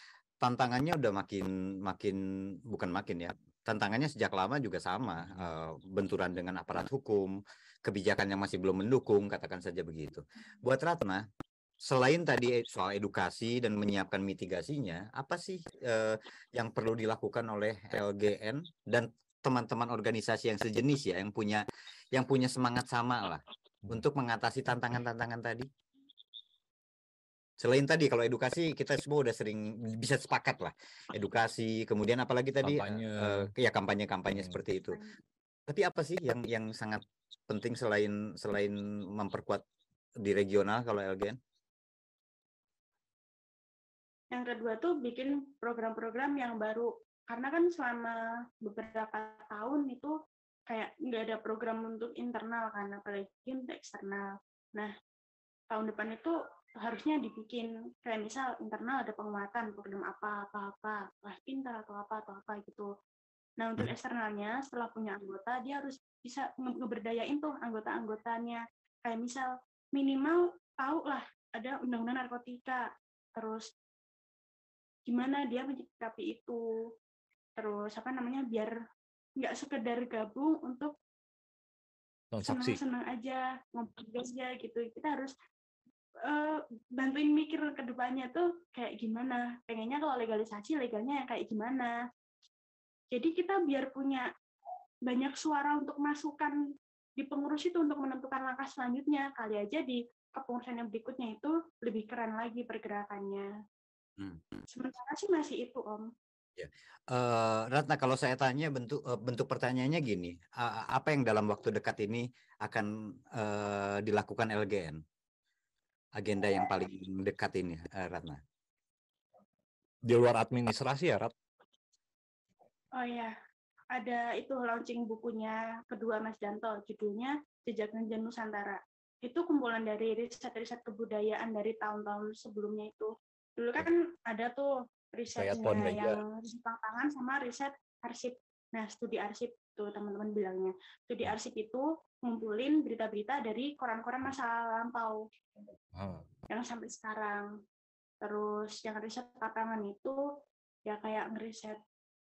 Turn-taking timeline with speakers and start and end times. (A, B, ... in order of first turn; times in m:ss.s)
0:00.4-0:11.2 A
0:11.8-0:25.7 A
0:27.6-0:35.0 A
0:32.6-0:33.5 B
0:35.7-0:39.6 A
0:40.2-0:41.4 A
0:44.3-0:50.1 C
0:50.7-0:54.9 C
0:55.7-1:02.9 C
1:03.6-1:12.8 C
1:13.4-1:13.7 C
1:15.1-1:16.6 C
1:17.6-1:18.7 C
1:19.4-1:20.9 C
1:22.3-1:22.8 B
1:22.5-1:25.3 C
1:26.3-1:32.0 C
1:33.1-1:34.3 C
1:35.1-1:36.6 C
1:37.2-1:43.5 C
1:44.2-1:44.4 A
1:44.7-1:46.1 C
1:46.6-1:55.0 A
1:56.2-1:58.4 A
2:00.0-2:01.3 B
2:03.0-2:03.3 C
2:03.9-2:25.2 C
2:15.3-2:16.2 B
2:25.9-2:26.2 B
2:26.5-2:27.5 C
2:28.2-2:30.2 C
2:30.9-2:31.8 C